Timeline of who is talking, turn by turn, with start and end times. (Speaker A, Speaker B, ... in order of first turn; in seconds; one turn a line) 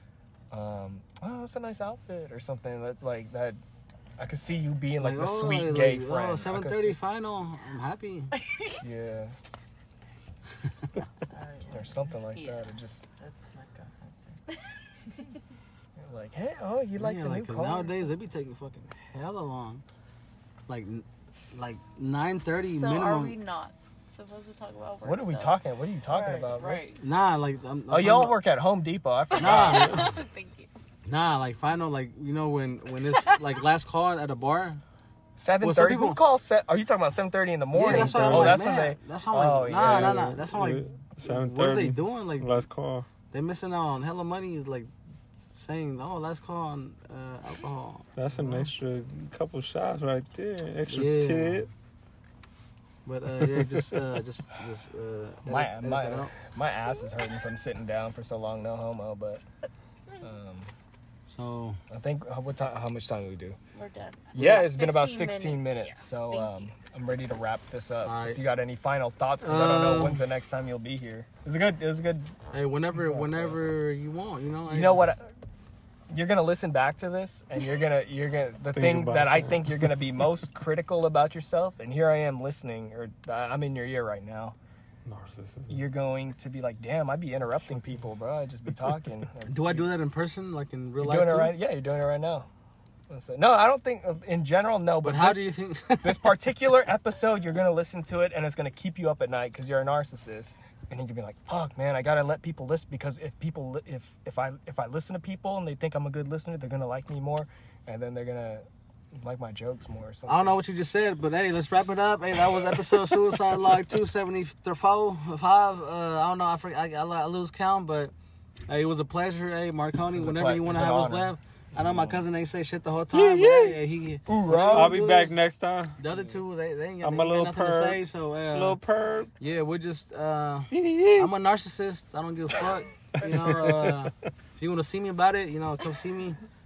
Speaker A: 0.5-3.6
Speaker A: 4.2-7.0
Speaker B: 5.0-8.3
Speaker A: 8.8-9.3
Speaker C: 11.3-12.1
Speaker A: 11.7-13.1
Speaker D: 12.3-12.7
Speaker C: 13.2-14.4
Speaker A: 16.0-18.1
Speaker B: 17.0-19.8
Speaker B: 20.7-23.4
Speaker D: 22.7-25.6
Speaker A: 25.0-26.8
Speaker C: 26.1-26.5
Speaker D: 26.5-27.0
Speaker B: 27.0-28.4
Speaker A: 27.9-30.0
Speaker D: 29.3-30.7
Speaker B: 29.4-30.0
Speaker E: 29.5-30.1
Speaker B: 31.1-34.8
Speaker A: 35.4-40.3
Speaker B: 35.6-36.2
Speaker B: 37.7-42.7
Speaker E: 37.8-38.7
Speaker E: 39.8-43.1
Speaker B: 43.3-44.9
Speaker B: 45.5-48.6
Speaker E: 48.2-51.7
Speaker B: 50.9-51.7
Speaker B: 53.1-56.3
Speaker E: 53.5-53.8
Speaker A: 55.5-59.4
Speaker A: 60.2-60.7
Speaker B: 61.3-61.8
Speaker A: 61.9-63.6
Speaker D: 63.7-66.7
Speaker A: 64.3-72.3
Speaker B: 68.0-68.4
Speaker B: 69.4-70.2
Speaker B: 72.5-75.2
Speaker A: 73.1-73.5
Speaker A: 74.7-75.2
Speaker A: 76.1-84.6
Speaker E: 78.7-80.0
Speaker E: 85.0-85.8
Speaker A: 85.7-89.9
Speaker B: 89.5-91.5
Speaker A: 91.0-92.5
Speaker A: 93.1-95.5
Speaker B: 95.0-96.3
Speaker A: 96.0-110.6
Speaker B: 110.3-118.1
Speaker B: 118.7-125.4
Speaker A: 120.1-122.2
Speaker E: 123.1-123.8
Speaker A: 124.3-125.2
Speaker E: 124.7-126.0
Speaker B: 126.0-128.8
Speaker E: 127.0-128.0
Speaker E: 128.5-129.3
Speaker B: 129.4-136.4
Speaker E: 130.7-131.3
Speaker E: 133.1-134.3